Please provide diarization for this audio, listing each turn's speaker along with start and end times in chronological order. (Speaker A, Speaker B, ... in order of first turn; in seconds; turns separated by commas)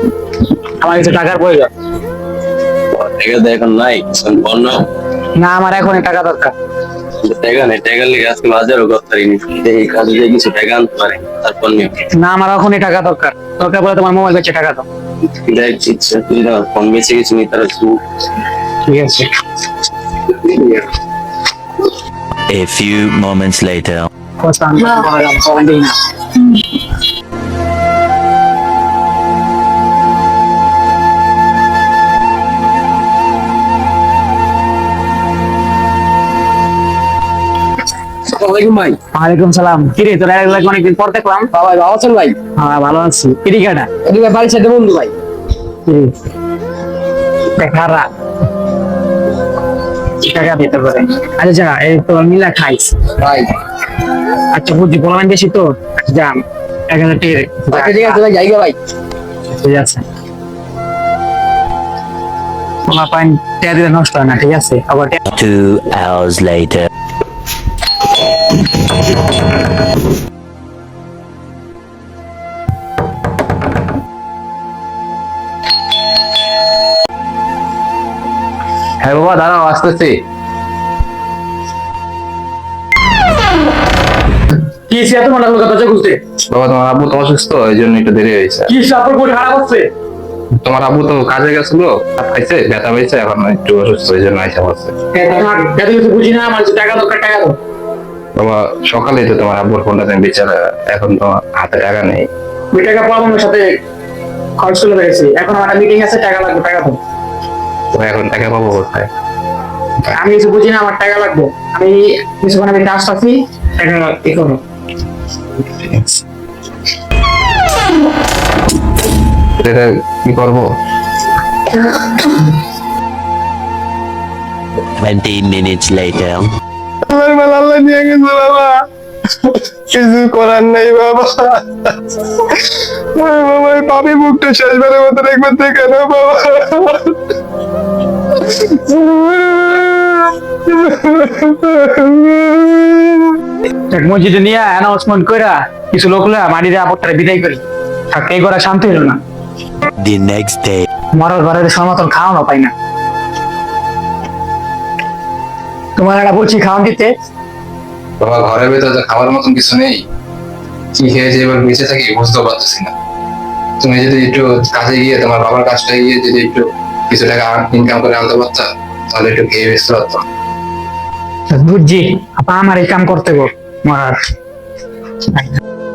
Speaker A: 0.8-1.7, Speaker B: 3.0-4.9, Speaker A: 5.4-6.5, Speaker B: 7.2-11.9, Speaker A: 12.1-14.8, Speaker B: 15.5-18.0, Speaker A: 18.9-19.3, Speaker C: 22.5-24.1, Speaker A: 24.4-26.0, Speaker D: 38.3-39.0, Speaker A: 39.1-41.5, Speaker D: 41.5-42.4, Speaker A: 42.6-43.9, Speaker D: 44.0-45.1, Speaker A: 45.9-46.1, Speaker A: 47.5-48.1, Speaker A: 50.2-52.9, Speaker D: 53.2-53.5, Speaker A: 54.5-58.2, Speaker D: 57.7-58.8, Speaker A: 59.6-60.0, Speaker A: 62.9-65.2, Speaker C: 65.3-66.9, Speaker E: 79.0-80.1, Speaker A: 84.9-86.2, Speaker E: 86.5-88.7, Speaker A: 88.7-89.8, Speaker E: 90.6-94.9, Speaker A: 95.1-97.5, Speaker E: 98.4-102.2, Speaker A: 102.7-103.7, Speaker A: 104.6-107.0, Speaker E: 107.9-109.1, Speaker A: 110.1-114.6, Speaker E: 119.6-120.6, Speaker C: 125.0-126.5, Speaker E: 127.1-128.7, Speaker E: 129.9-131.6, Speaker E: 133.2-137.1, Speaker E: 138.6-140.1, Speaker E: 140.7-142.9, Speaker A: 143.9-149.2, Speaker C: 150.0-150.9, Speaker A: 151.1-152.7, Speaker A: 156.0-157.1, Speaker E: 158.2-160.0, Speaker E: 160.9-162.9, Speaker E: 163.8-170.2, Speaker A: 171.5-174.2, Speaker A: 175.3-175.6